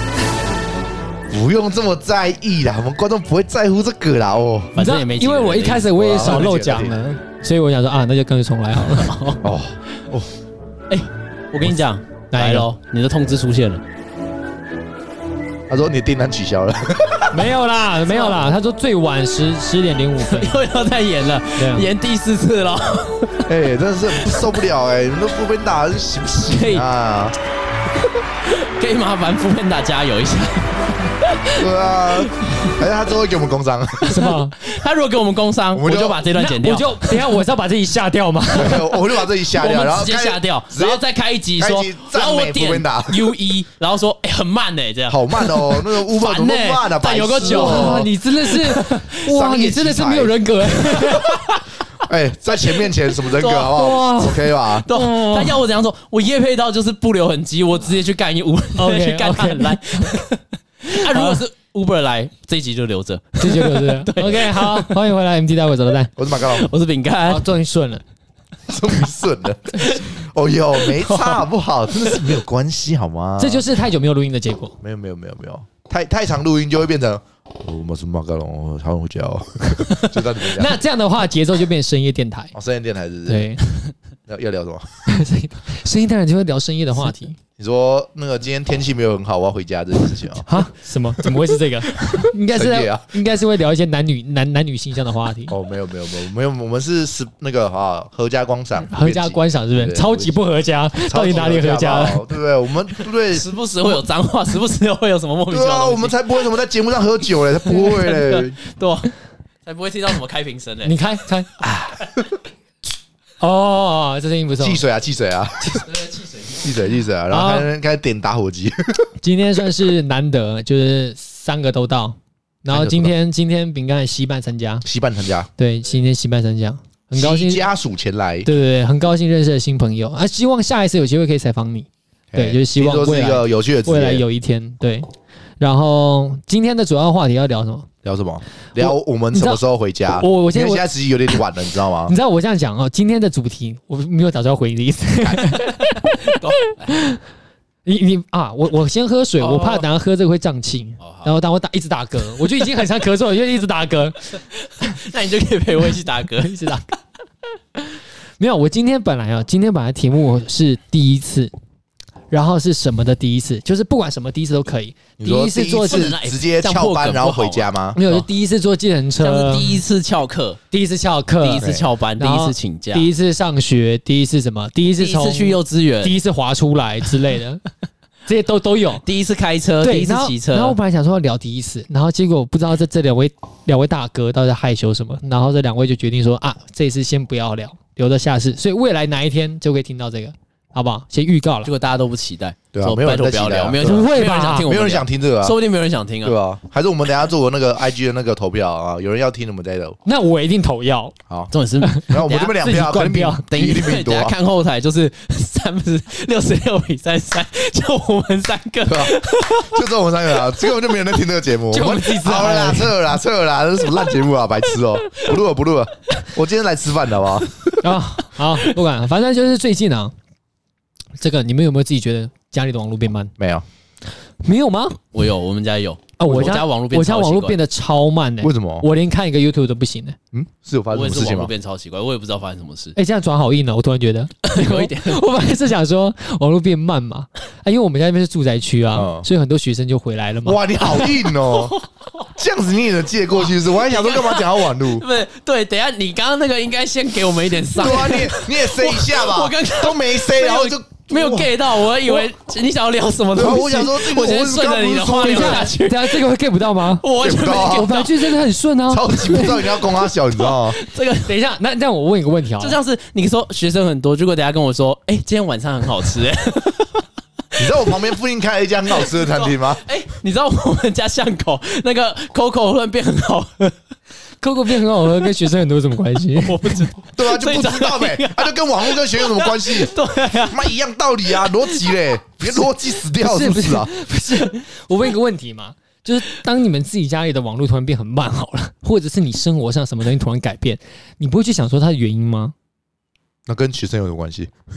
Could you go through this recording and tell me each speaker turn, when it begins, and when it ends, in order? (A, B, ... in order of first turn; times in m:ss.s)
0:01.3-0:04.7 A
0:04.7-0:06.5 B
0:04.8-0:09.2 C
0:06.0-0:07.0 A
0:08.8-0:09.4 B
0:09.4-0:10.3 A
0:10.9-0:13.8 B
0:12.3-0:12.7 C
0:15.7-0:17.5 A
0:17.3-0:20.6 C
0:18.1-0:18.4 B
0:20.3-0:23.5 B
0:21.6-0:21.8 C
0:23.4-0:27.4 A
0:26.4-0:26.8 B
0:28.4-0:31.7 B
0:31.6-0:34.2 A
0:34.0-0:34.5 C
0:34.2-0:37.2 B
0:35.7-0:36.2 A
0:36.3-0:38.9 C
0:38.5-0:41.0 A
0:39.5-0:49.0 B
0:41.6-0:43.3 A
0:45.1-0:48.1 A
0:47.4-0:51.3 C
0:48.8-0:50.4 A
0:50.9-0:51.6 B
0:52.0-0:54.9 A
0:52.8-0:53.9 B
0:53.7-0:55.6 C
0:54.8-1:05.0 B
0:58.8-1:00.2 C
1:00.9-1:01.4 C
1:03.4-1:06.1 C
1:06.2-1:06.7 A
1:06.3-1:07.4 B
1:07.2-1:08.0 C
1:08.7-1:13.6 A
1:09.8-1:10.1 B
1:10.8-1:11.4 B
1:12.0-1:12.3 B
1:13.4-1:14.8 C
1:14.8-1:20.8 A
1:19.9-1:22.5 C
1:22.5-1:23.6 A
1:23.3-1:23.6 C
1:24.3-1:24.9 A
1:25.0-1:27.4 C
1:27.6-1:30.6 A
1:30.4-1:35.5 C
1:31.9-1:33.1 A
1:35.5-1:40.3 A
1:38.9-1:42.2 C
1:41.0-1:43.5 A
1:43.3-1:46.2 B
1:45.5-1:48.6 A
1:47.6-1:49.1 B
1:49.6-1:51.0 B
1:50.8-1:52.0 C
1:53.4-1:54.8 C
1:54.6-1:55.9 A
1:55.8-1:56.8 B
1:56.6-1:59.0 A
1:57.3-1:57.7 C
1:59.2-2:04.8 C
2:02.7-2:03.1 A
2:04.8-2:05.5 A
2:05.6-2:07.6 C
2:07.1-2:08.5 A
2:08.4-2:15.1 C
2:12.3-2:14.2 A
2:15.6-2:17.9 C
2:18.0-2:22.1 A
2:18.8-2:19.6 C
2:20.2-2:20.9 C
2:22.1-2:27.2 C
2:26.0-2:26.9 B
2:27.8-2:34.9 C
2:29.4-2:29.8 B
2:31.0-2:31.3 B
2:34.6-2:36.6 B
2:36.4-2:36.8 C
2:37.8-2:41.5 C
2:42.3-2:46.1 C
2:45.2-2:48.0 A
2:45.8-2:48.2 B
2:47.9-2:49.8 C
2:49.2-2:50.6 B
2:50.7-2:57.6 C
2:51.4-2:53.1 B
2:51.6-2:51.8 A
2:55.0-2:56.1 B
2:58.3-2:59.0 C
2:59.0-3:00.8 B
2:59.8-3:11.7 C
3:11.6-3:16.4 B
3:12.7-3:15.6 A
3:13.8-3:14.7 C
3:16.2-3:20.0 A
3:20.0-3:21.1 C
3:21.5-3:22.6 B
3:21.8-3:23.4 C
3:22.1-3:24.3 A
3:23.5-3:29.9 B
3:28.8-3:37.5 A
3:31.7-3:33.0 C
3:37.8-3:40.1 C
3:41.2-3:43.3 C
3:43.4-3:43.6 A
3:44.4-3:45.0 C
3:45.1-3:47.6 B
3:46.2-3:50.2 C
3:48.4-3:48.9 A
3:50.3-3:51.5 A
3:50.9-3:52.9 B
3:53.0-4:01.1 C
3:54.4-3:55.2 B
3:58.9-3:59.3 A
4:00.4-4:01.7 A
4:01.4-4:02.3 B
4:02.4-4:05.0 A
4:03.4-4:16.2 B
4:07.7-4:12.2 A
4:13.3-4:15.7 A
4:15.2-4:19.6 C
4:17.0-4:18.4 B
4:17.2-4:17.9 A
4:18.9-4:20.8 A
4:20.4-4:21.3 B
4:21.2-4:22.8 C
4:22.6-4:27.0 B
4:27.6-4:28.0 B
4:27.6-4:29.8 A
4:28.9-4:33.8 B
4:34.4-4:36.9 C
4:36.4-4:40.7 B
4:37.2-4:39.9 A
4:40.5-4:43.9 A
4:41.3-4:42.0 B
4:43.2-4:52.5 C
4:53.5-4:54.5 A